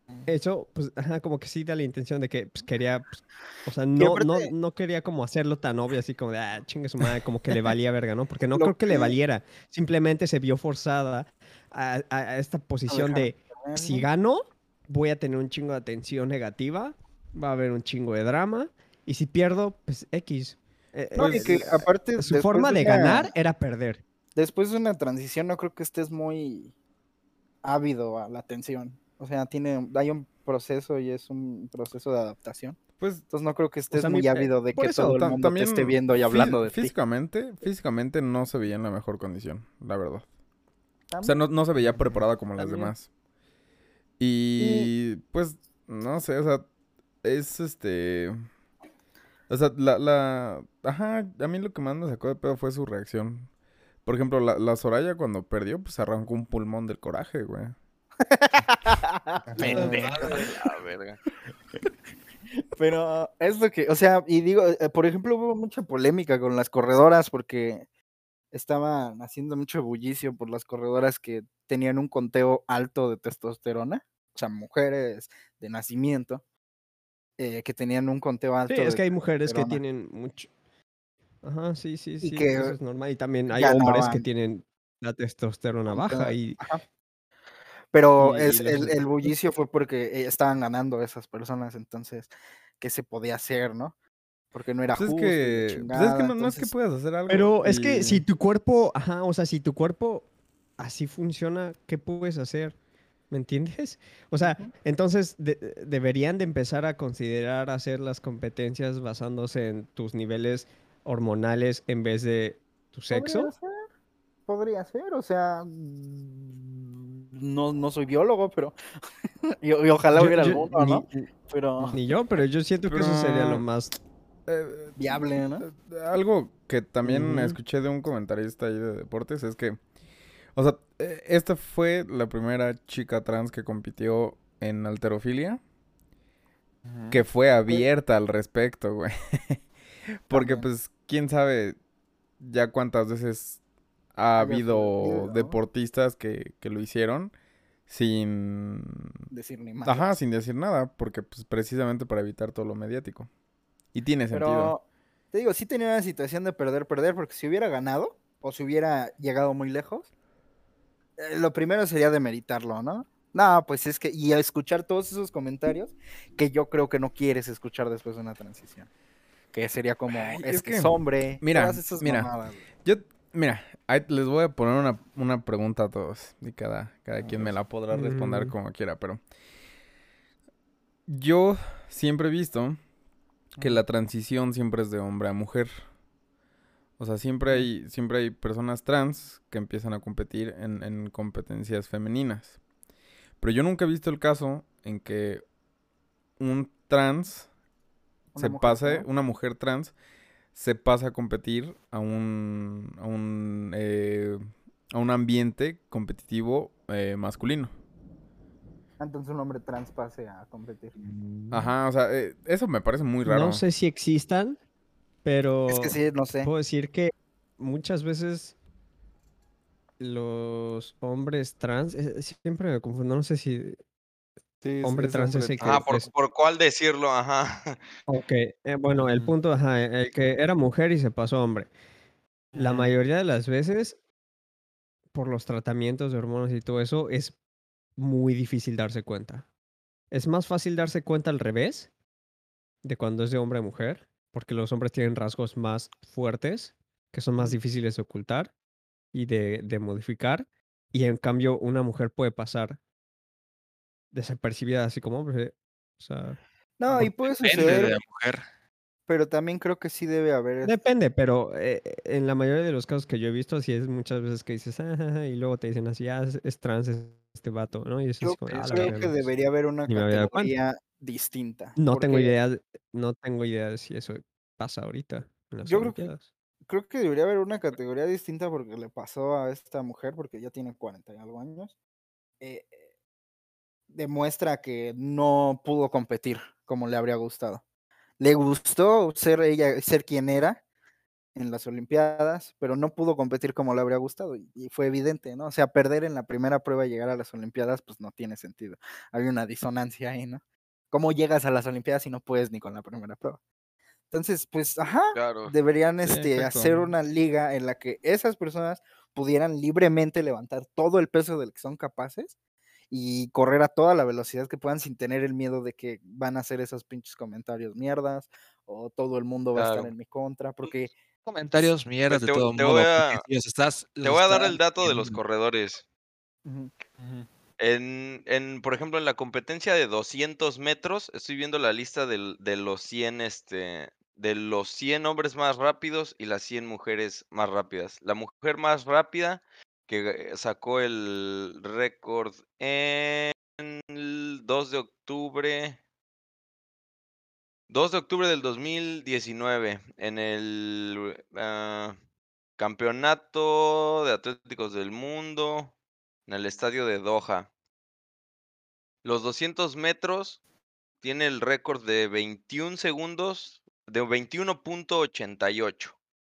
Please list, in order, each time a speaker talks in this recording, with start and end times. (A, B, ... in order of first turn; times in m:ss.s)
0:00.3-0:24.0 A
0:04.0-0:04.5 B
0:08.6-0:09.2 B
0:12.9-0:14.1 B
0:21.2-0:23.3 B
0:24.4-0:26.7 B
0:27.6-0:36.9 B
0:33.0-0:33.2 C
0:33.9-0:35.2 A
0:34.9-0:40.3 C
0:41.1-0:41.4 B
0:41.2-0:43.1 C
0:41.9-0:42.2 D
0:42.6-0:42.9 A
0:44.2-0:46.7 C
0:44.6-0:44.9 B
0:47.2-0:48.4 C
0:49.5-0:53.5 C
0:54.0-0:57.8 C
0:58.2-1:00.6 B
0:59.5-1:00.2 D
0:59.6-1:01.2 E
1:02.8-1:07.9 B
1:08.5-1:16.4 B
1:17.4-1:19.8 B
1:18.7-1:20.5 A
1:21.4-1:26.6 A
1:22.2-1:22.8 B
1:23.5-1:24.3 B
1:25.9-1:26.8 B
1:27.9-1:33.9 B
1:28.2-1:29.3 A
1:34.5-1:36.7 B
1:35.0-1:38.2 C
1:37.3-1:40.3 A
1:40.8-1:42.8 A
1:43.3-1:53.5 A
1:44.4-1:44.7 B
1:53.1-1:53.7 B
1:54.5-1:58.8 B
1:59.6-2:02.0 B
2:00.2-2:01.3 A
2:01.9-2:04.0 A
2:02.9-2:03.6 C
2:04.5-2:09.8 C
2:05.0-2:05.7 B
2:07.0-2:07.6 A
2:10.6-2:15.6 C
2:16.8-2:17.2 D
2:17.1-2:19.6 C
2:20.3-2:21.8 C
2:20.3-2:20.7 B
2:22.4-2:23.6 C
2:24.1-2:27.3 C
2:24.4-2:25.6 B
2:27.9-2:29.2 C
2:29.3-2:30.1 B
2:29.8-2:33.3 C
2:33.9-2:34.8 C
2:34.3-2:40.1 B
2:41.2-2:48.9 B
2:49.5-2:52.6 B
2:50.1-2:52.3 C
2:52.8-2:59.2 C
2:57.2-2:57.5 D
2:57.9-2:58.6 A
3:01.1-3:02.8 C
3:03.6-3:05.7 C
3:07.0-3:12.6 C
3:13.4-3:15.4 C
3:16.4-3:17.5 C
3:18.3-3:19.1 B
3:18.4-3:19.9 C
3:20.5-3:27.7 C
3:29.0-3:30.9 B
3:31.5-3:33.6 C
3:33.2-3:34.6 A
3:35.2-3:38.6 A
3:35.7-3:36.5 B
3:40.0-3:43.8 A
3:44.6-3:46.0 D
3:44.8-3:46.1 A
3:45.6-3:47.8 E
3:48.1-3:51.7 A
3:49.0-3:49.4 D
3:52.5-3:53.0 D
3:52.6-3:54.0 A
3:55.1-3:57.4 A
3:58.0-3:59.5 A
4:00.1-4:01.9 A
4:02.8-4:08.5 A
4:09.1-4:12.8 A
4:14.1-4:16.4 A
4:16.8-4:18.0 B
4:17.2-4:18.4 F
4:19.1-4:20.8 B
4:20.6-4:29.2 A
4:28.2-4:32.3 B
4:28.7-4:29.0 D
4:29.9-4:30.6 A
4:31.8-4:36.3 A
4:35.6-4:36.1 B
4:36.7-4:41.8 B
4:42.4-4:42.8 B
4:43.9-4:47.6 B
4:48.2-4:50.6 B
4:51.4-5:03.4 B
5:04.1-5:12.4 B
5:05.2-5:05.5 E
5:06.0-5:06.9 C
5:12.9-5:20.9 B
5:19.5-5:19.9 E
5:21.3-5:25.2 F
5:22.1-5:23.2 E
5:24.0-5:25.8 E
5:26.5-5:26.7 B
5:27.0-5:27.3 D
5:27.6-5:45.8 E
5:47.7-5:52.0 E
5:52.6-5:55.7 E
5:56.3-5:57.5 E
5:59.0-6:00.4 E
6:01.0-6:06.0 E